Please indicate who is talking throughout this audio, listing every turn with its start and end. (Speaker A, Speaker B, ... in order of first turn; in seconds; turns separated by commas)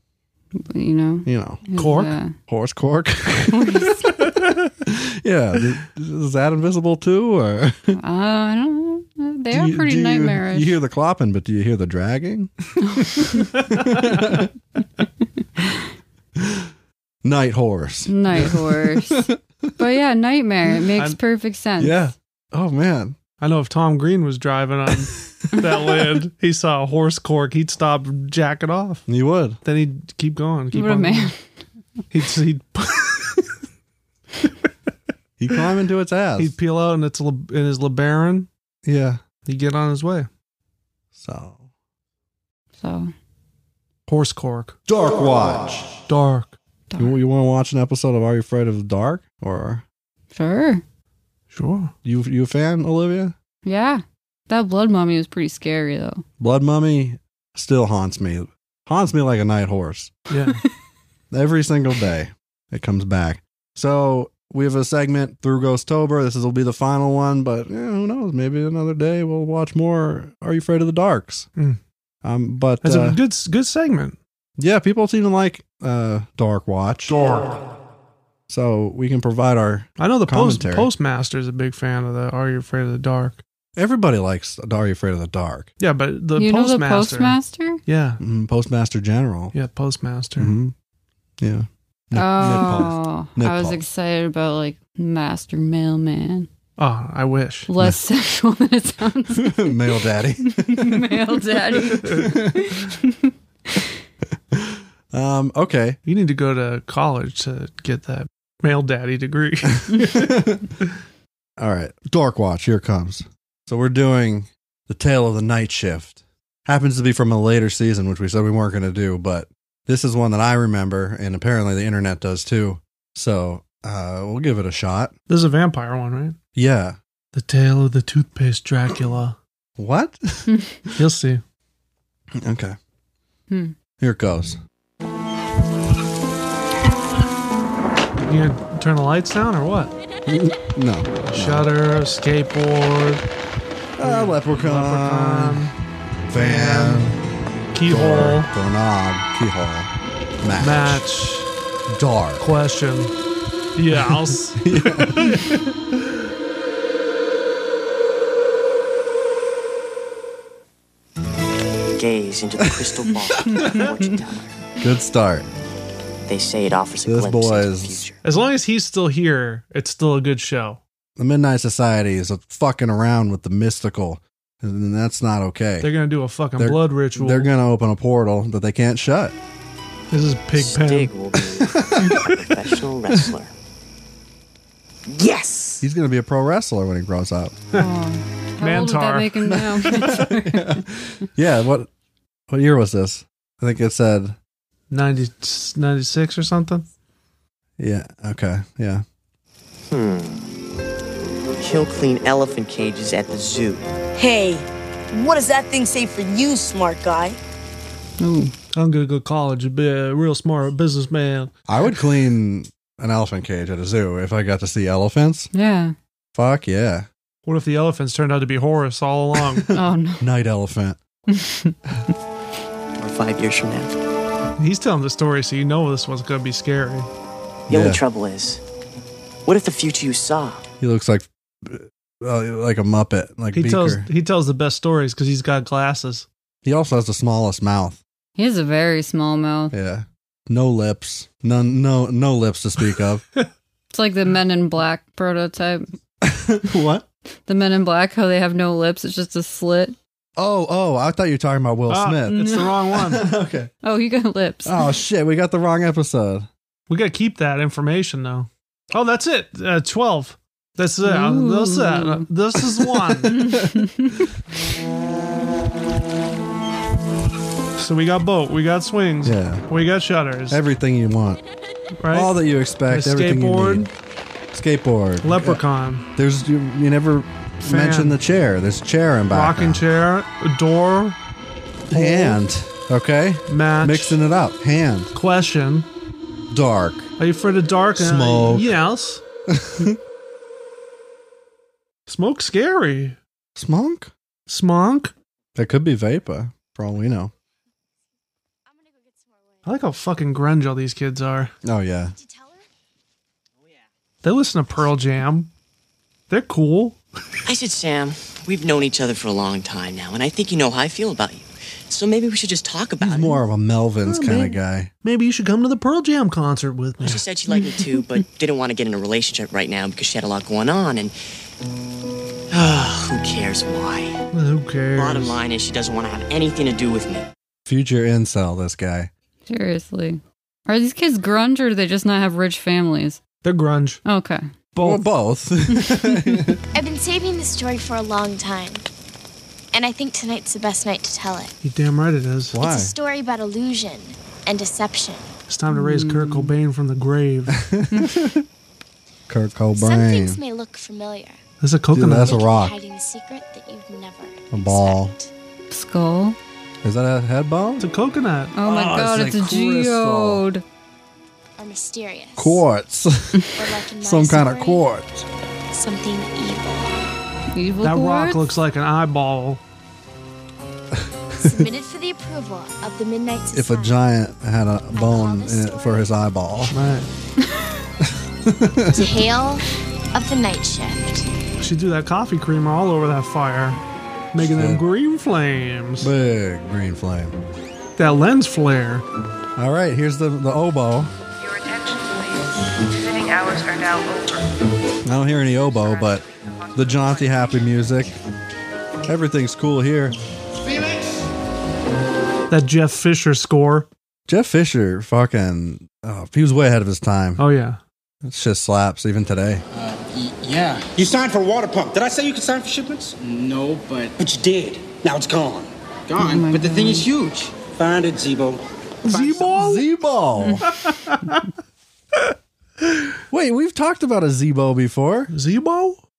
Speaker A: 0.6-2.4, Speaker B: 1.2-1.6, Speaker C: 1.8-2.1, Speaker B: 2.5-8.0, Speaker A: 3.5-4.1, Speaker A: 8.0-10.8, Speaker B: 9.5-12.5, Speaker A: 12.8-13.5, Speaker B: 13.2-14.5, Speaker C: 13.7-14.0, Speaker B: 16.4-16.7, Speaker B: 17.2-19.7, Speaker A: 18.1-22.0, Speaker B: 21.8-23.2, Speaker C: 23.4-29.1, Speaker B: 29.1-29.6, Speaker C: 29.6-31.3, Speaker A: 30.7-31.6, Speaker C: 32.1-33.4, Speaker B: 35.4-36.5, Speaker C: 36.4-38.5, Speaker B: 38.8-39.2, Speaker C: 39.4-40.3, Speaker B: 41.1-41.6, Speaker A: 42.8-43.1, Speaker C: 44.1-44.7, Speaker B: 44.9-45.9, Speaker C: 46.1-46.6, Speaker A: 46.9-47.2, Speaker B: 47.0-49.8, Speaker A: 50.3-50.8, Speaker C: 51.5-51.9, Speaker B: 52.0-53.3, Speaker A: 53.6-56.2, Speaker B: 56.4-60.1, Speaker C: 60.3-60.6, Speaker B: 61.3-71.5, Speaker B: 72.2-73.2, Speaker C: 72.8-74.2, Speaker B: 74.6-77.1, Speaker C: 77.1-77.6, Speaker B: 78.5-80.9, Speaker C: 80.0-83.4, Speaker B: 83.8-85.7, Speaker C: 85.8-88.2, Speaker A: 86.4-87.8, Speaker B: 88.2-89.5, Speaker C: 89.5-90.5, Speaker B: 90.4-90.7, Speaker B: 91.4-93.8, Speaker A: 92.1-96.5, Speaker C: 96.8-97.7, Speaker A: 97.7-99.8, Speaker B: 99.3-101.2, Speaker A: 100.4-103.9, Speaker B: 101.7-102.8, Speaker B: 104.5-106.0, Speaker C: 106.0-110.9, Speaker B: 109.9-110.6, Speaker B: 111.6-125.1, Speaker C: 125.3-126.3, Speaker B: 126.5-127.0, Speaker C: 127.3-129.4, Speaker B: 129.8-130.5, Speaker A: 130.5-130.7, Speaker C: 130.9-131.4, Speaker B: 132.4-132.8, Speaker B: 134.0-134.6, Speaker C: 138.2-139.9, Speaker B: 140.2-141.7, Speaker C: 141.2-143.2, Speaker B: 144.0-145.7, Speaker C: 144.0-145.7, Speaker B: 146.3-147.2, Speaker C: 146.3-147.1, Speaker C: 147.7-148.5, Speaker B: 147.8-151.1, Speaker C: 150.6-151.5, Speaker B: 151.9-152.4, Speaker C: 152.4-153.1, Speaker C: 153.8-155.6, Speaker B: 154.6-155.6, Speaker D: 161.9-164.6, Speaker B: 164.8-165.5, Speaker D: 166.2-168.2, Speaker B: 167.0-168.0, Speaker C: 168.2-170.8, Speaker B: 171.2-175.9, Speaker C: 175.8-177.5, Speaker B: 176.6-179.3, Speaker C: 180.1-181.1, Speaker D: 180.5-183.5, Speaker B: 181.6-183.3, Speaker D: 185.1-185.8, Speaker B: 185.8-187.6, Speaker A: 187.7-190.8, Speaker C: 188.6-189.6, Speaker B: 189.9-191.9, Speaker B: 192.5-194.4, Speaker C: 194.9-196.8, Speaker B: 197.8-199.0, Speaker D: 199.9-200.5, Speaker D: 201.6-203.9, Speaker E: 204.2-207.4, Speaker A: 208.2-208.5, Speaker C: 208.7-211.5, Speaker B: 211.7-215.5, Speaker A: 215.5-215.9, Speaker B: 216.3-217.1, Speaker C: 217.4-219.7, Speaker A: 219.7-220.2, Speaker B: 220.2-221.0, Speaker A: 221.3-221.8, Speaker D: 223.0-223.9, Speaker C: 224.6-227.1, Speaker B: 227.7-228.0, Speaker D: 227.7-228.6, Speaker D: 229.4-230.6, Speaker B: 230.8-234.1, Speaker C: 233.5-236.3, Speaker B: 236.6-238.0, Speaker A: 238.4-239.7, Speaker B: 239.7-243.2, Speaker A: 243.9-245.9, Speaker B: 246.2-247.1, Speaker A: 247.4-249.9, Speaker B: 250.3-253.7, Speaker C: 251.9-253.2, Speaker A: 253.8-254.8, Speaker B: 254.6-256.5, Speaker C: 256.9-263.4, Speaker A: 261.0-262.2, Speaker B: 262.8-264.2, Speaker A: 263.3-264.3, Speaker C: 267.8-270.6, Speaker B: 269.2-269.6, Speaker B: 270.5-271.4, Speaker C: 272.0-272.3, Speaker B: 272.1-273.9, Speaker C: 272.9-273.9, Speaker B: 274.5-275.6, Speaker C: 275.2-276.0, Speaker B: 276.1-279.8, Speaker C: 277.6-278.2, Speaker C: 279.3-281.2, Speaker C: 281.9-282.4, Speaker B: 281.9-285.1, Speaker C: 283.5-284.2, Speaker C: 285.1-285.9, Speaker B: 286.5-287.1, Speaker C: 287.2-289.2, Speaker B: 288.0-288.7, Speaker B: 289.5-290.0, Speaker C: 292.1-293.2, Speaker B: 293.6-294.1, Speaker C: 294.5-295.1, Speaker B: 295.6-297.3, Speaker F: 298.7-299.8, Speaker C: 299.6-301.5, Speaker B: 301.6-302.1, Speaker F: 302.1-302.6, Speaker C: 304.2-305.5, Speaker C: 306.3-307.0, Speaker D: 307.4-313.4, Speaker B: 313.0-314.9, Speaker C: 314.1-317.2, Speaker D: 317.0-321.1, Speaker D: 322.5-324.2, Speaker C: 324.3-325.4, Speaker D: 324.9-327.2, Speaker B: 327.6-329.1, Speaker A: 329.5-333.2, Speaker C: 333.4-334.0, Speaker A: 334.0-334.4, Speaker C: 334.8-335.0, Speaker B: 334.8-336.6, Speaker A: 335.7-336.4, Speaker F: 336.7-338.9, Speaker F: 339.7-341.5, Speaker C: 341.6-342.6, Speaker B: 342.5-342.9, Speaker F: 342.6-345.3, Speaker C: 345.5-347.6, Speaker A: 345.7-346.5, Speaker B: 347.5-348.4, Speaker B: 349.3-350.4, Speaker F: 349.7-351.4, Speaker C: 351.6-352.4, Speaker B: 351.9-352.7, Speaker F: 352.2-355.3, Speaker B: 354.5-355.1, Speaker A: 355.7-356.4, Speaker B: 356.8-357.9, Speaker C: 357.8-358.5, Speaker A: 358.5-360.6, Speaker B: 358.6-360.4, Speaker F: 361.6-362.6, Speaker B: 362.4-365.2, Speaker F: 363.5-364.9, Speaker F: 365.7-366.9, Speaker A: 367.5-368.5, Speaker C: 367.8-369.6, Speaker B: 371.3-371.6, Speaker F: 371.4-374.0, Speaker B: 373.5-376.7, Speaker F: 374.9-376.2, Speaker C: 376.7-377.1, Speaker B: 378.0-379.1, Speaker F: 378.9-381.3, Speaker C: 381.6-383.8, Speaker C: 384.3-386.1, Speaker B: 384.4-384.8, Speaker B: 386.0-387.4, Speaker C: 388.0-389.0, Speaker B: 389.6-391.1, Speaker G: 391.4-394.5, Speaker B: 395.0-396.2, Speaker G: 395.4-397.8, Speaker B: 396.7-398.2, Speaker B: 399.1-400.1, Speaker C: 402.5-403.9, Speaker B: 404.3-407.4, Speaker C: 407.4-407.8, Speaker B: 408.2-409.6, Speaker H: 409.7-419.4, Speaker A: 416.2-417.1, Speaker C: 419.1-419.9, Speaker B: 419.5-420.7, Speaker A: 420.4-420.6, Speaker C: 420.7-421.3, Speaker B: 423.3-425.3, Speaker C: 425.3-426.0